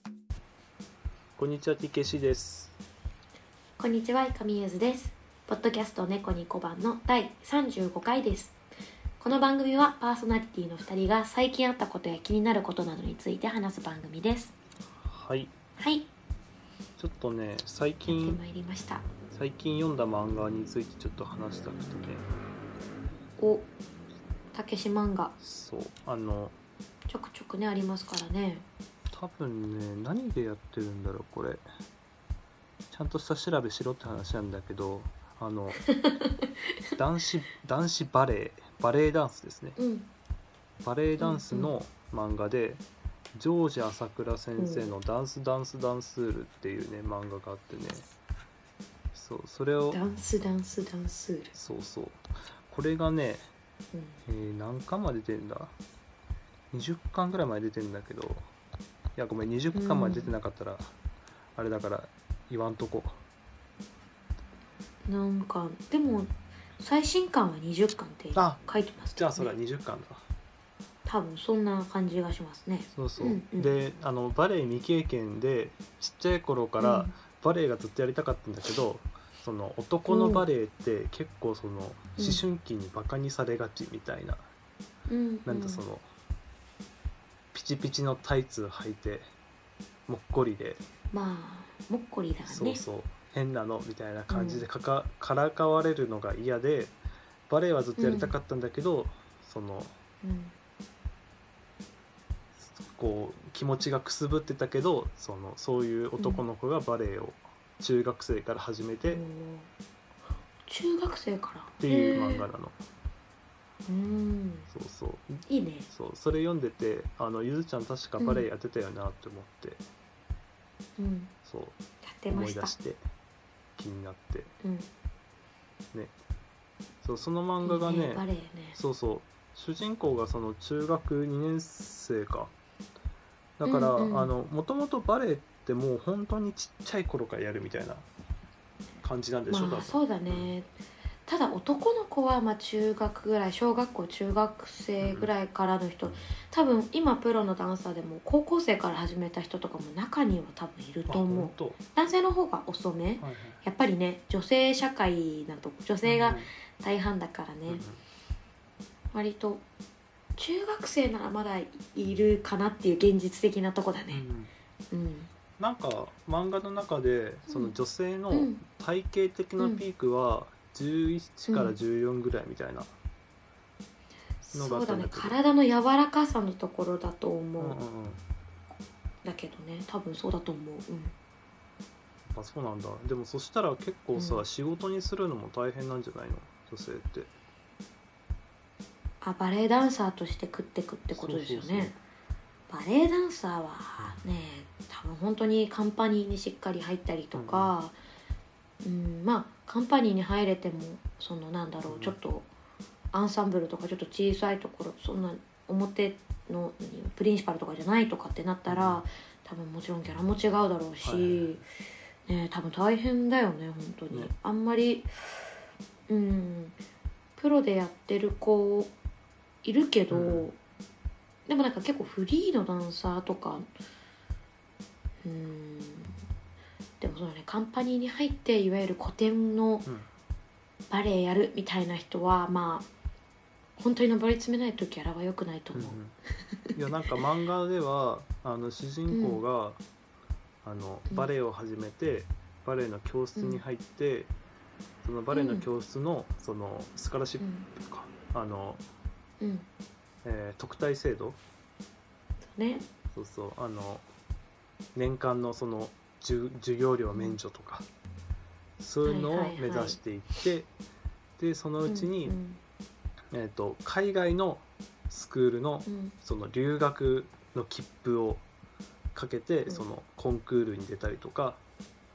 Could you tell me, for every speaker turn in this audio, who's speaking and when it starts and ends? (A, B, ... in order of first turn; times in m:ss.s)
0:01.4-0:02.8 A
0:03.8-0:08.6 B
0:09.2-0:14.5 B
0:15.0-0:15.5 A
0:15.8-0:16.1 B
0:17.0-0:18.4 A
0:18.1-0:19.1 B
0:19.3-0:22.3 A
0:23.4-0:23.7 B
0:24.5-0:25.4 B
0:25.4-0:26.6 A
0:27.1-0:28.6 B
0:29.1-0:31.6 A
0:32.9-0:35.8 A
0:35.9-0:36.5 B
0:37.0-0:39.8 A
0:39.8-0:40.1 B
0:40.8-0:48.0 A
0:41.2-0:41.8 B
0:44.6-0:45.0 B
0:49.1-0:50.0 A
0:49.9-0:51.6 B
0:51.5-0:53.5 A
0:53.9-0:54.2 B
0:54.3-0:55.7 A
0:56.7-0:58.5 A
0:59.2-1:00.9 A
0:59.7-1:00.3 B
1:01.6-1:03.2 A
1:05.1-1:09.5 B
1:08.4-1:08.6 A
1:09.2-1:10.2 A
1:11.0-1:13.8 B
1:13.0-1:24.4 A
1:16.8-1:17.1 B
1:20.1-1:20.5 B
1:22.2-1:22.4 B
1:25.1-1:25.8 B
1:25.5-1:26.1 A
1:27.5-1:29.3 A
1:30.1-1:30.8 A
1:31.1-1:32.8 B
1:32.5-1:37.0 A
1:34.3-1:34.7 B
1:37.5-1:39.9 A
1:38.0-1:38.3 B
1:40.2-1:40.5 B
1:42.6-1:49.2 A
1:46.2-1:46.4 B
1:49.1-1:49.7 B
1:50.7-1:52.5 B
1:51.8-1:52.8 A
1:53.9-1:54.7 B
1:54.7-1:59.8 A
1:55.5-1:55.9 B
1:58.2-1:58.5 B
2:01.0-2:01.3 B
2:01.4-2:01.8 A
2:02.0-2:02.8 B
2:02.3-2:03.0 A
2:03.8-2:04.5 A
2:04.6-2:04.9 B
2:07.0-2:12.5 A
2:07.6-2:08.8 B
2:13.6-2:18.1 A
2:13.7-2:14.3 B
2:19.0-2:20.5 A
2:19.5-2:20.7 B
2:21.3-2:37.8 B
2:25.0-2:25.3 A
2:31.1-2:31.8 A
2:33.2-2:33.6 A
2:36.0-2:36.5 A
2:37.7-2:38.0 A
2:39.1-2:39.6 B
2:40.4-2:44.2 B
2:44.1-2:44.5 A
2:44.9-2:45.3 B
2:45.6-2:52.9 A
2:47.5-2:47.7 B
2:48.3-2:48.6 B
2:51.5-2:51.8 B
2:54.4-2:57.8 B
2:54.5-2:55.4 A
2:57.6-2:58.2 A
2:59.2-3:01.1 B
3:02.3-3:07.3 A
3:04.2-3:04.4 B
3:09.2-3:12.0 B
3:11.1-3:12.0 A
3:12.7-3:18.0 B
3:17.4-3:17.7 A
3:18.8-3:22.5 B
3:21.9-3:22.2 A
3:23.1-3:31.6 B
3:28.7-3:29.0 A
3:31.0-3:31.6 A
3:32.3-3:35.1 B
3:36.1-3:36.8 B
3:37.4-3:38.9 B
3:39.6-3:40.6 B
3:40.1-3:40.5 A
3:41.5-3:43.7 B
3:45.2-3:46.2 B
3:47.0-3:49.9 B
3:50.9-3:52.9 B
3:53.8-3:56.0 B
3:55.7-3:56.2 A
3:56.7-3:59.8 A
3:59.1-3:59.4 B
4:00.6-4:04.3 A
4:03.4-4:03.6 B
4:05.0-4:08.8 A
4:05.3-4:05.7 B
4:07.4-4:07.7 B
4:09.4-4:09.7 B
4:10.2-4:11.4 A
4:12.5-4:12.9 B
4:13.1-4:14.0 A
4:15.0-4:17.9 A
4:17.1-4:17.4 B
4:18.8-4:20.7 A
4:19.0-4:20.0 B
4:21.4-4:22.4 A
4:21.9-4:22.6 B
4:23.3-4:28.4 A
4:25.9-4:26.1 B
4:29.1-4:31.6 A